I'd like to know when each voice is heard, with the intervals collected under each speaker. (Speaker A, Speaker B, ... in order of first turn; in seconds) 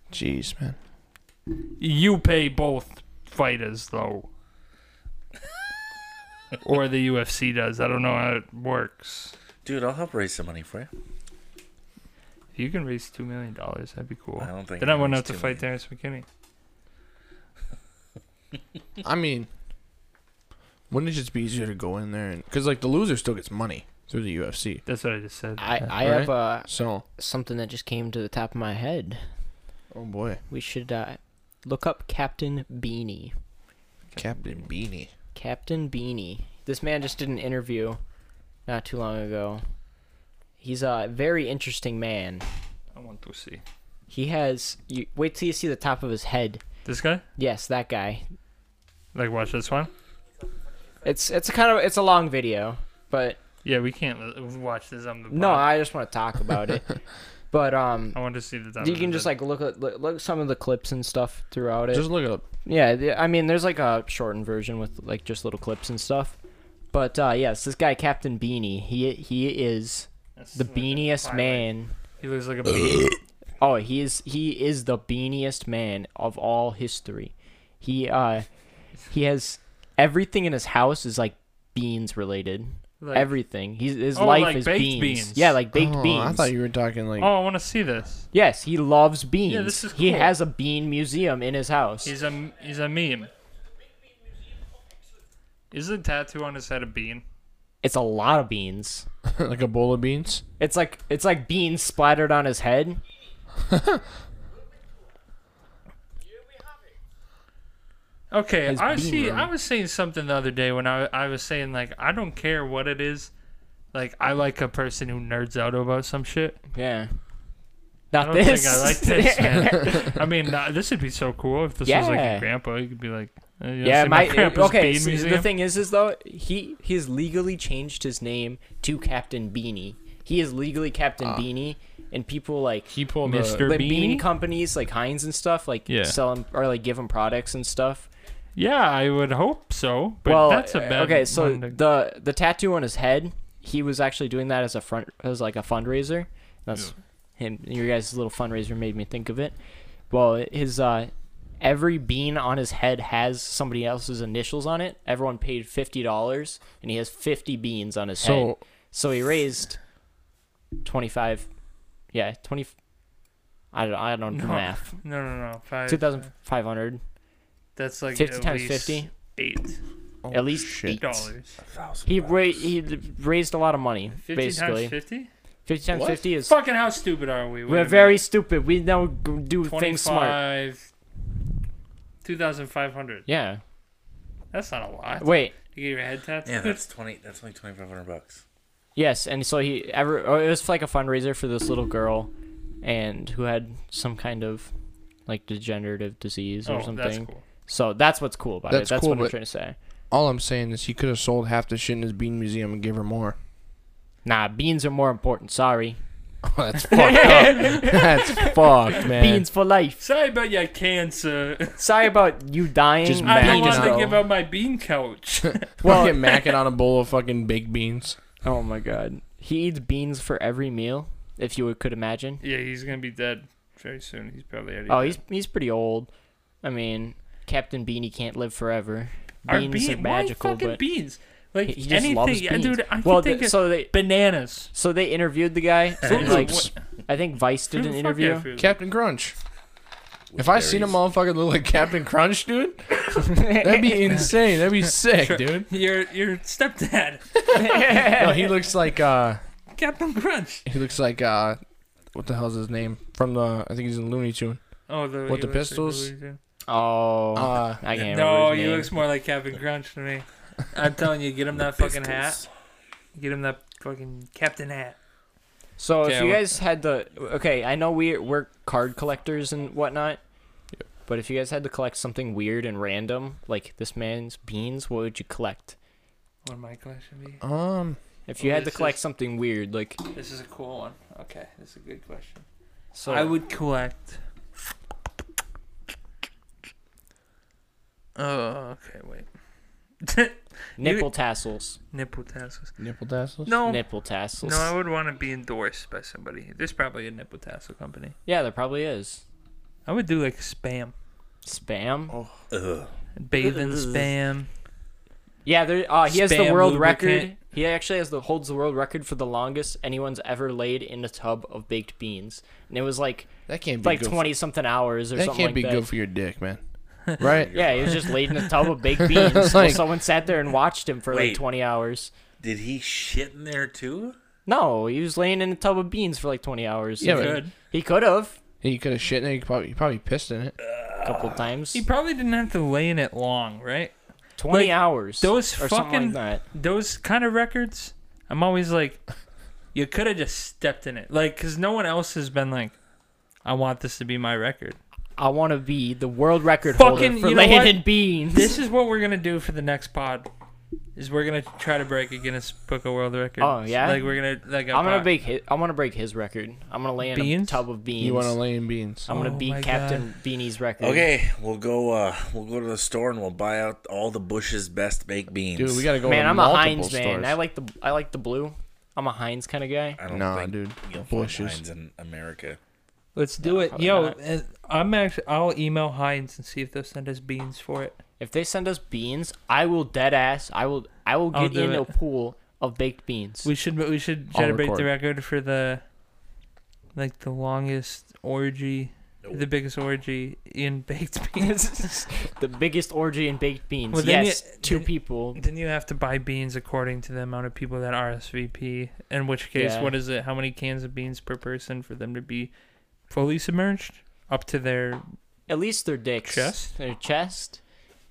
Speaker A: 0.1-0.8, 19.1-19.5, 20.9-24.8, 26.0-27.0, 29.9-30.4, 34.2-35.1, 61.9-62.5, 85.7-87.3, 99.3-100.4, 103.7-104.0, 132.9-133.7, 158.2-158.6, 170.2-171.0, 175.9-176.2, 198.7-199.3, 200.1-203.4, 206.4-209.5, 213.0-214.2, 215.8-218.2, 236.1-236.7, 238.6-239.3, 240.3-245.7, 248.1-249.4, 250.7-251.6, 252.1-254.6, 255.3-256.1, 257.4-257.8, 277.4-278.0, 292.8-293.6, 313.5-314.4, 315.1-316.6, 317.1-317.5, 319.1-319.9, 327.0-327.5, 328.6-330.6, 358.0-359.1, 365.6-367.4, 370.1-371.6, 384.3-384.9
Speaker B: 1.8-4.3, 6.6-9.3, 12.6-16.3, 24.9-25.8, 42.9-43.6, 46.9-47.2, 49.1-49.9, 53.6-55.7, 58.1-59.3, 70.4-73.2, 83.0-83.3, 84.2-85.6, 87.2-88.3, 89.5-90.4, 92.0-93.3, 95.7-97.2, 108.3-113.3, 113.9-116.6, 118.2-125.5, 133.2-134.3, 135.9-136.2, 138.6-141.8, 164.3-166.2, 167.8-169.8, 171.0-171.6, 174.2-175.3, 176.5-178.2, 179.7-180.9, 182.2-183.2, 184.5-186.8, 196.7-197.4, 207.2-208.0, 210.0-211.9, 213.2-216.2, 222.4-225.2, 229.5-234.7, 236.0-236.7, 237.8-238.8, 245.0-248.1, 249.7-250.7, 254.9-256.4, 258.0-262.4, 263.1-265.0, 266.0-266.5, 276.4-277.4, 278.4-279.0, 280.1-282.4, 283.0-284.2, 288.2-289.3, 290.0-291.1, 291.9-292.7, 293.5-293.8, 294.4-298.2, 299.9-300.9, 303.2-304.5, 306.1-307.3, 318.1-318.4, 327.1-327.5, 331.7-333.9, 334.5-339.0, 339.7-342.8, 343.4-344.8, 346.7-350.3, 351.0-355.1, 357.1-357.6, 359.1-360.1, 373.1-378.0, 381.3-381.9, 383.4-385.8, 386.9-392.0, 393.9-402.5, 403.1-405.0, 406.3-406.7
Speaker C: 9.6-10.9, 14.4-15.6, 171.6-172.7, 186.5-188.4, 240.3-241.0, 261.7-262.5, 302.5-302.9, 317.2-318.1, 321.1-321.4, 322.4-324.2, 330.6-331.4, 360.8-365.9, 370.0-372.6
Speaker D: 25.6-29.3, 30.5-33.3, 35.4-38.0, 38.7-39.6, 40.6-42.5, 44.1-46.6, 47.4-48.2, 51.0-53.4, 55.3-56.9, 57.5-58.2, 58.8-62.1, 62.7-66.4, 66.9-71.9, 73.6-78.5, 79.1-86.5, 88.3-92.1, 97.8-99.1, 100.6-103.0, 108.7-109.5, 116.7-117.1, 118.1-120.2, 121.8-122.5, 123.8-132.9, 133.6-138.1, 140.2-149.6, 150.1-159.8, 160.8-161.5, 162.1-162.7, 163.7-165.0, 165.9-167.0, 168.1-169.1, 170.3-171.3, 172.1-175.0, 175.7-176.5, 177.7-180.4, 183.3-183.6, 185.2-185.6, 189.0-192.3, 192.8-194.7, 195.3-199.8, 204.2-206.0, 206.9-210.0, 211.8-214.2, 215.8-216.4, 218.4-222.4, 224.9-226.1, 226.6-230.8, 231.7-233.9, 234.7-238.5, 243.2-244.1, 247.5-248.5, 256.7-258.9, 265.8-270.2, 271.1-275.8, 278.3-280.0, 282.9-283.3, 290.8-291.8, 293.7-294.7, 298.3-299.2, 301.4-302.2, 303.4-304.1, 305.4-313.3, 313.8-315.9, 317.5-322.1, 324.5-328.4, 331.0-331.8, 334.4-336.4, 345.2-348.6, 353.4-354.0, 354.7-358.4, 359.1-361.1, 366.0-370.0, 373.4-374.2, 378.2-383.5, 391.4-395.4, 399.6-399.9, 405.5-407.6